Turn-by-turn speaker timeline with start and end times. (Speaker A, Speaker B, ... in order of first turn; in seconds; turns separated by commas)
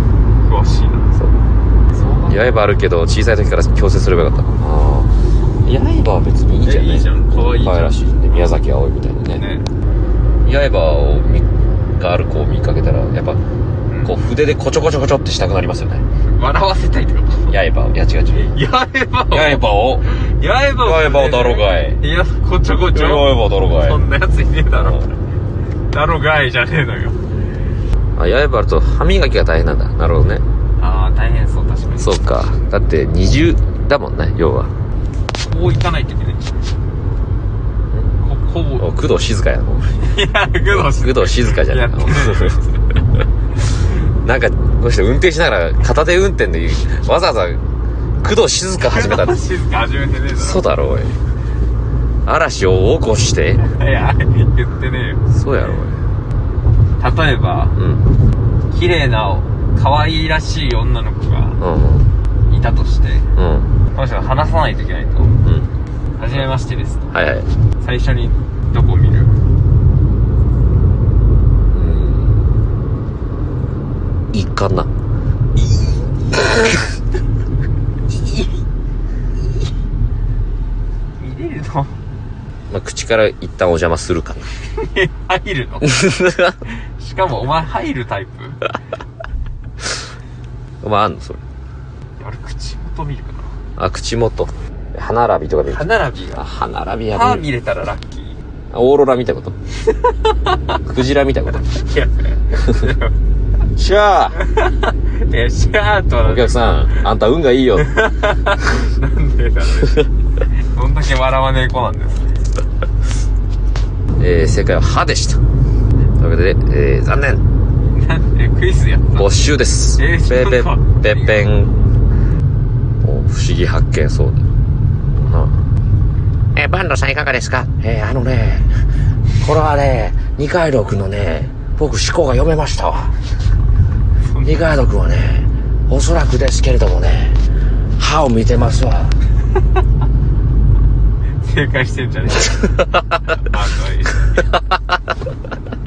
Speaker A: 0.4-1.1, Speaker A: 1.9-2.6, Speaker B: 2.2-5.1, Speaker B: 5.7-9.4, Speaker A: 6.6-8.6, Speaker A: 9.3-9.7, Speaker B: 10.4-13.4, Speaker A: 13.9-14.2, Speaker B: 14.0-16.0, Speaker A: 16.3-17.6, Speaker B: 17.5-18.5, Speaker A: 18.3-25.0, Speaker B: 19.3-20.1, Speaker B: 20.8-22.0, Speaker B: 22.9-24.0, Speaker B: 24.7-25.1, Speaker A: 25.9-27.2, Speaker B: 28.2-30.4, Speaker A: 30.8-32.2, Speaker B: 32.0-34.7, Speaker A: 35.3-36.5, Speaker A: 38.2-38.9, Speaker B: 38.8-40.1, Speaker A: 40.0-42.8, Speaker B: 40.7-42.6, Speaker B: 44.2-47.6, Speaker B: 48.2-49.4, Speaker A: 48.8-50.6, Speaker B: 50.4-51.1, Speaker B: 52.2-53.6, Speaker A: 53.6-55.2, Speaker B: 55.3-56.0, Speaker A: 57.0-57.8, Speaker B: 57.8-58.0, Speaker A: 58.7-61.6, Speaker B: 61.6-62.1, Speaker A: 62.5-63.3, Speaker B: 63.4-63.7, Speaker A: 63.9-65.3, Speaker B: 65.4-65.7, Speaker A: 66.2-67.1, Speaker B: 67.1-67.5, Speaker A: 67.8-69.3, Speaker B: 71.7-72.5, Speaker B: 74.3-74.9, Speaker A: 75.7-76.4, Speaker A: 81.2-81.9, Speaker B: 82.7-84.5, Speaker A: 84.7-86.0, Speaker B: 85.8-86.6, Speaker A: 86.8-88.6, Speaker B: 90.8-91.4, Speaker A: 92.2-93.5, Speaker B: 93.8-97.5, Speaker A: 95.7-96.5, Speaker A: 97.1-98.4, Speaker B: 98.7-99.6, Speaker B: 100.7-101.7, Speaker A: 101.7-103.1, Speaker B: 103.8-104.4, Speaker A: 104.4-106.6, Speaker B: 106.2-107.9, Speaker A: 107.8-112.3, Speaker B: 114.2-115.4, Speaker B: 116.2-117.4, Speaker A: 117.9-119.3, Speaker B: 119.2-121.7, Speaker A: 120.0-121.4, Speaker B: 123.0-124.4, Speaker B: 125.2-125.5, Speaker B: 126.5-128.7, Speaker B: 129.4-133.1, Speaker A: 134.2-134.7, Speaker B: 134.4-137.4, Speaker B: 138.0-139.2, Speaker A: 141.4-144.5